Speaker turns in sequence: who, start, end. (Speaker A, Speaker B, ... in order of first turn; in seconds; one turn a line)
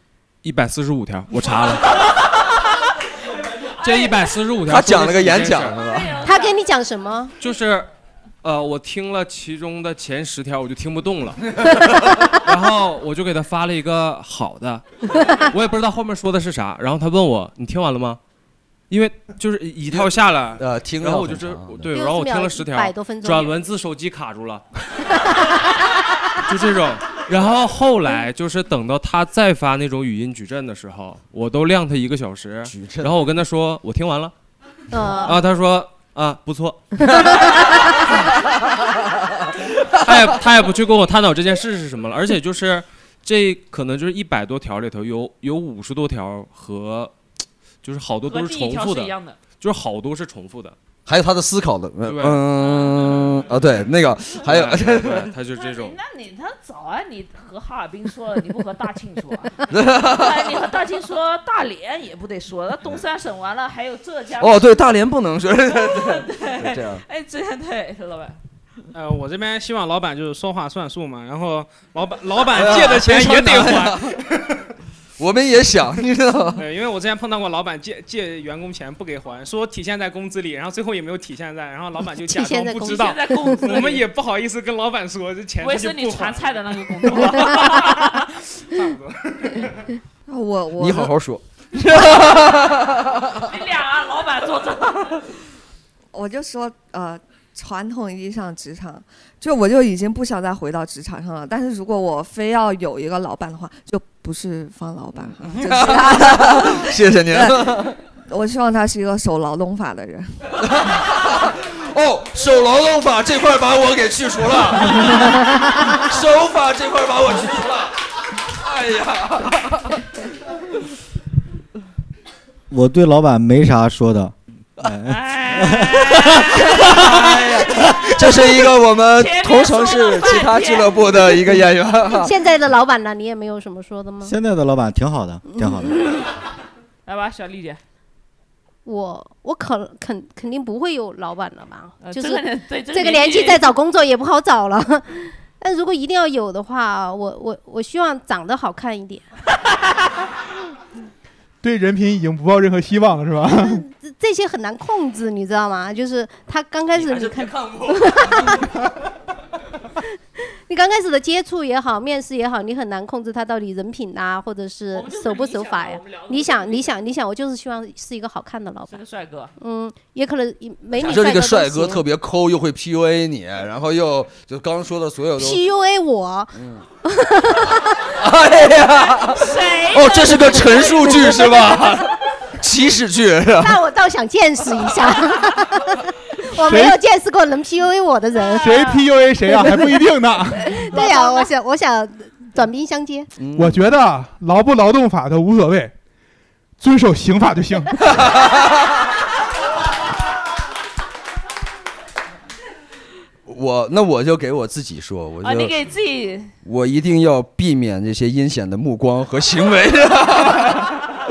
Speaker A: 0.4-2.0
Speaker B: 1.9-2.8
Speaker B: 3.5-4.3
Speaker A: 3.8-5.8
Speaker C: 4.7-6.1
Speaker B: 5.8-6.6
Speaker D: 6.2-7.3
Speaker A: 7.4-7.9
Speaker A: 8.4-11.5
Speaker C: 11.6-12.1
Speaker A: 12.3-18.2
Speaker A: 18.9-24.6
Speaker C: 19.9-21.9
Speaker D: 21.9-23.6
Speaker D: 25.4-25.6
Speaker A: 26.4-34.3
Speaker C: 32.6-33.2
Speaker D: 34.9-35.4
Speaker A: 35.2-36.8
Speaker A: 40.0-47.1
Speaker A: 47.8-50.8
Speaker B: 48.3-49.4
Speaker C: 51.1-55.3
Speaker A: 52.0-56.0
Speaker B: 55.5-64.7
Speaker C: 59.7-60.5
Speaker C: 64.4-67.0
Speaker B: 65.7-68.4
Speaker E: 68.9-74.1
Speaker C: 72.5-74.4
Speaker C: 75.2-76.6
Speaker E: 76.6-89.8
Speaker D: 82.2-83.8
Speaker B: 82.9-84.0
Speaker B: 85.6-88.3
Speaker F: 90.3-91.1
Speaker C: 90.8-93.5
Speaker B: 93.4-95.3
Speaker F: 96.1-107.8
Speaker C: 105.2-108.0
Speaker F: 108.3-110.4
Speaker C: 110.6-120.0
Speaker G: 122.7-125.9
Speaker B: 125.1-131.4
Speaker C: 126.0-132.3
Speaker D: 132.2-134.3
Speaker G: 134.2-136.0
Speaker D: 135.5-136.2
Speaker B: 137.1-137.8
Speaker D: 138.9-149.2
Speaker B: 142.0-143.7
Speaker H: 151.6-153.8
Speaker D: 153.6-158.7
Speaker C: 156.9-158.6
Speaker D: 160.7-169.0
Speaker B: 164.9-166.9
Speaker B: 168.9-169.5
Speaker D: 169.6-172.0
Speaker C: 171.0-175.6
Speaker D: 175.4-178.1
Speaker C: 176.6-176.8
Speaker C: 178.0-183.8
Speaker B: 179.1-181.8
Speaker D: 183.6-189.0
Speaker H: 186.6-187.0
Speaker H: 188.6-190.9
Speaker D: 190.8-193.3
Speaker C: 193.4-193.8
Speaker H: 193.6-195.9
Speaker H: 196.8-198.1
Speaker C: 198.0-199.0
Speaker C: 203.5-205.7
Speaker B: 205.4-206.5
Speaker C: 206.6-211.0